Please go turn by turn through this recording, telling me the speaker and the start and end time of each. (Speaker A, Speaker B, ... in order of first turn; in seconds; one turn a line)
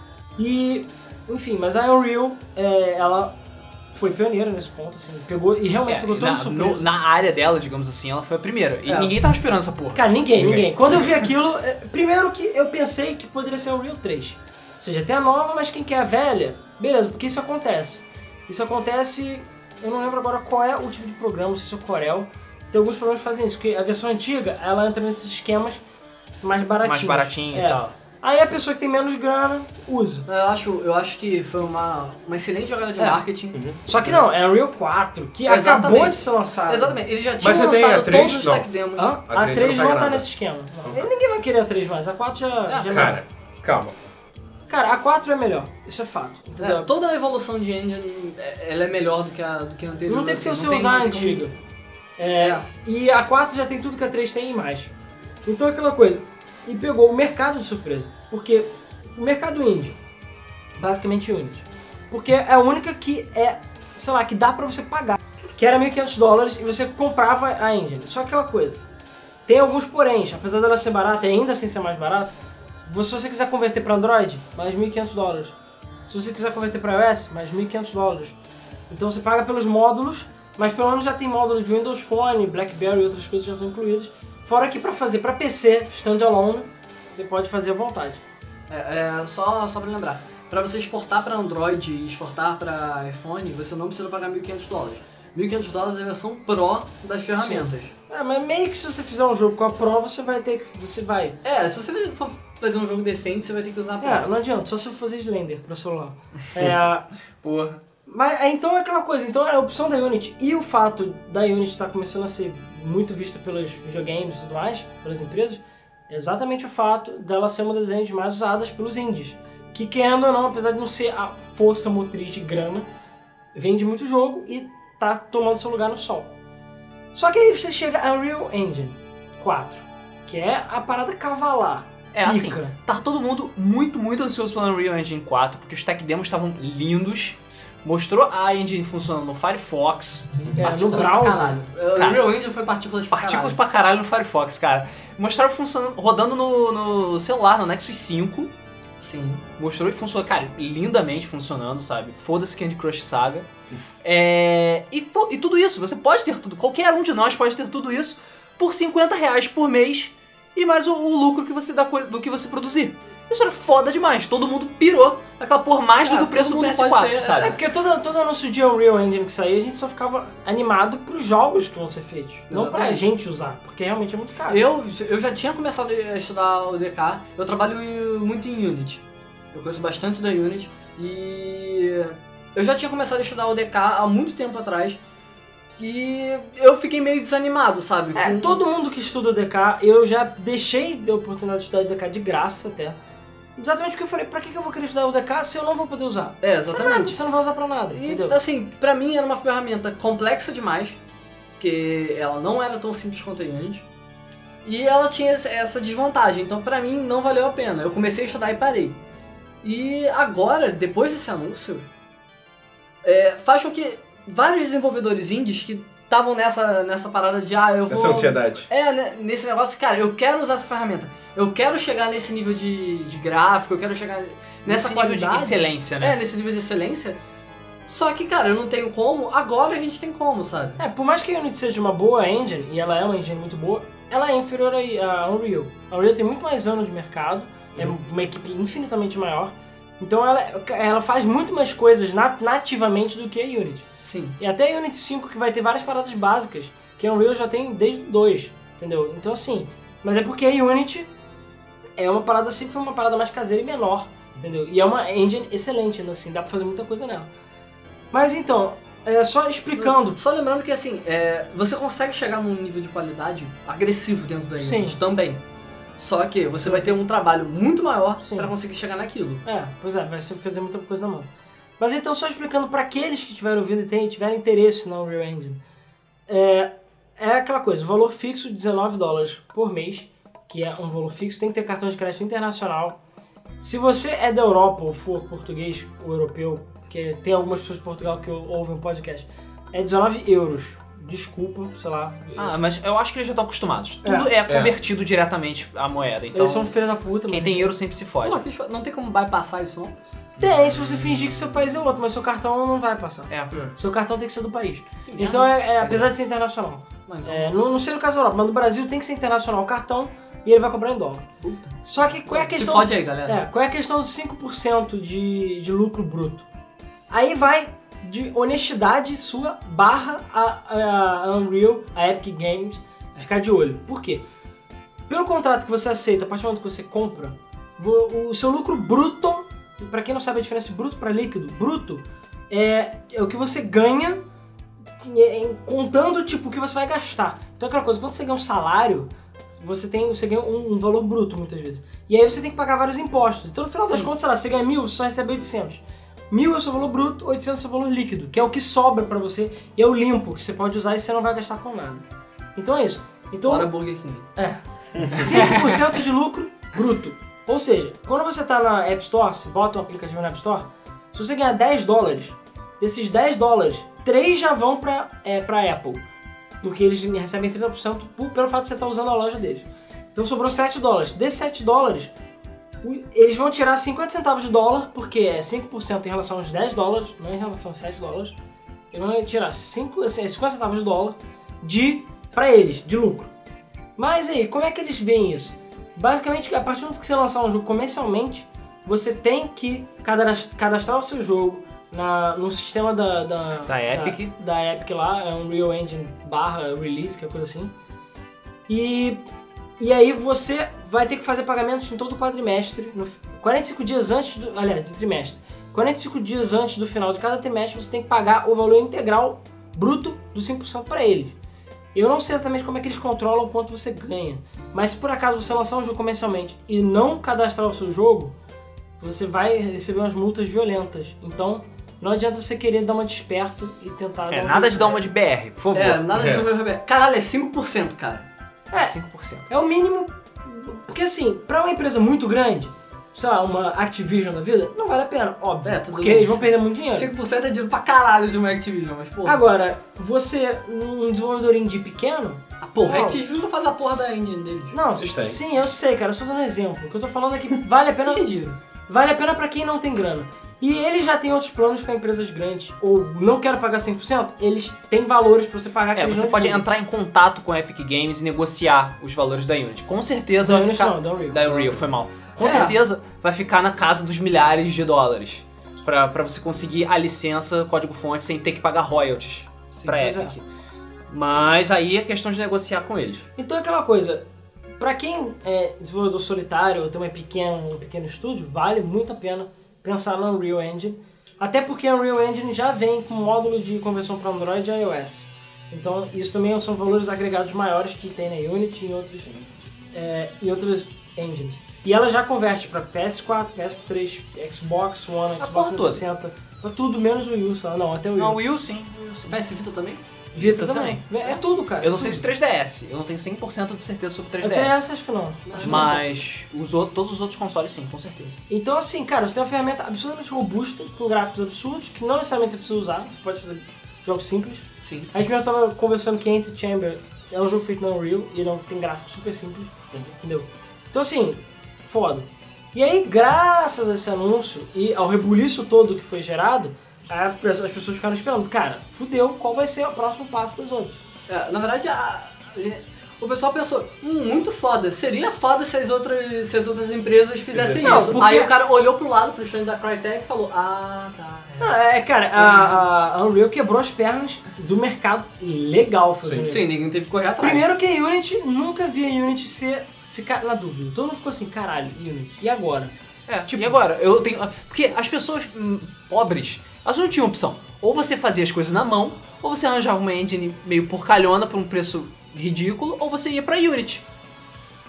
Speaker A: 0.4-3.4
Speaker A: 3.9-6.8
Speaker B: 5.9-10.0
Speaker C: 8.9-9.2
Speaker A: 9.9-25.8
Speaker D: 10.4-10.7
Speaker A: 26.4-30.3
Speaker B: 26.8-28.0
Speaker C: 30.3-33.6
Speaker A: 33.0-33.2
Speaker D: 33.5-34.2
Speaker A: 33.9-37.0
Speaker C: 35.5-39.2
Speaker D: 37.4-38.7
Speaker A: 39.0-43.2
Speaker D: 39.2-40.3
Speaker C: 42.7-43.1
Speaker D: 42.9-44.0
Speaker A: 44.7-46.9
Speaker C: 46.6-51.5
Speaker A: 50.1-51.5
Speaker A: 52.2-54.9
Speaker C: 52.4-52.6
Speaker A: 55.5-60.0
Speaker A: 60.8-68.8
Speaker A: 69.5-78.3
Speaker A: 78.9-88.2
Speaker C: 88.7-97.9
Speaker A: 97.4-101.4
Speaker C: 101.4-104.3
Speaker A: 104.0-107.1
Speaker B: 107.4-107.8
Speaker A: 108.1-122.9
Speaker A: 123.5-126.3
Speaker A: 127.1-132.7
Speaker B: 132.1-141.1
Speaker C: 140.4-143.6
Speaker A: 140.6-141.7
Speaker B: 141.9-142.3
Speaker B: 143.1-148.5
Speaker C: 149.0-149.4
Speaker B: 149.6-153.5
Speaker B: 154.0-167.6
Speaker C: 166.1-167.6
Speaker A: 167.4-174.6
Speaker C: 172.5-173.1
Speaker C: 174.5-179.0
Speaker C: 179.5-185.0
Speaker C: 185.8-188.6
Speaker A: 188.2-193.0
Speaker A: 193.6-198.4
Speaker C: 196.4-197.2
Speaker C: 197.9-201.0
Speaker C: 201.6-203.8
Speaker C: 204.7-209.0
Speaker C: 209.6-211.8
Speaker C: 213.0-227.2
Speaker D: 217.9-218.7
Speaker B: 224.7-226.2
Speaker C: 227.9-230.8
Speaker A: 230.8-243.8
Speaker C: 244.0-244.4
Speaker A: 244.4-251.1
Speaker A: 252.0-257.3
Speaker A: 258.1-260.2
Speaker C: 259.8-265.4
Speaker A: 264.6-265.0
Speaker C: 266.0-269.4
Speaker A: 266.5-267.0
Speaker A: 268.2-268.5
Speaker A: 269.5-275.6
Speaker A: 276.3-283.0
Speaker A: 283.6-292.6
Speaker B: 292.4-296.7
Speaker A: 294.0-294.3
Speaker D: 294.5-294.7
Speaker A: 296.3-297.7
Speaker B: 297.3-298.4
Speaker C: 298.2-300.0
Speaker A: 300.4-311.3
Speaker B: 303.3-303.6
Speaker C: 305.1-306.1
Speaker C: 307.1-307.5
Speaker C: 311.4-313.4
Speaker A: 311.8-316.4
Speaker A: 317.1-324.2
Speaker A: 325.1-334.2
Speaker A: 335.0-352.1
Speaker A: 352.6-353.7
Speaker C: 353.4-354.3
Speaker A: 354.4-366.0
Speaker A: 366.6-372.1
Speaker A: 372.8-378.4
Speaker A: 378.9-383.3
Speaker A: 384.0-397.7
Speaker B: 393.7-394.3
Speaker A: 398.7-399.2
Speaker A: 399.8-411.3
Speaker A: 411.9-418.3
Speaker A: 419.0-425.1
Speaker B: 424.3-426.1
Speaker C: 425.8-428.2
Speaker D: 426.1-426.5
Speaker B: 428.7-429.5
Speaker A: 429.5-437.1
Speaker C: 435.6-439.4
Speaker A: 439.2-443.2
Speaker C: 442.6-444.8
Speaker A: 443.8-444.1
Speaker A: 444.7-448.3
Speaker D: 445.0-445.4
Speaker C: 448.1-448.6
Speaker A: 448.9-456.6
Speaker B: 455.9-470.4
Speaker A: 460.4-461.8
Speaker C: 462.4-462.8
Speaker A: 462.4-462.8
Speaker A: 469.9-470.3
Speaker B: 471.1-473.3
Speaker A: 473.4-474.2
Speaker A: 474.8-489.4
Speaker A: 489.9-498.4
Speaker B: 495.4-496.1
Speaker B: 498.2-499.4
Speaker C: 499.3-500.0
Speaker B: 500.3-504.9
Speaker A: 500.4-502.2
Speaker A: 504.4-506.0
Speaker C: 505.5-506.0
Speaker B: 505.6-508.4
Speaker A: 508.5-531.0
Speaker C: 514.8-515.1
Speaker C: 531.3-541.8
Speaker D: 537.5-538.2
Speaker A: 537.8-538.5
Speaker A: 541.6-546.7
Speaker C: 542.4-542.8
Speaker C: 546.4-547.7
Speaker A: 547.4-552.9
Speaker B: 553.3-564.0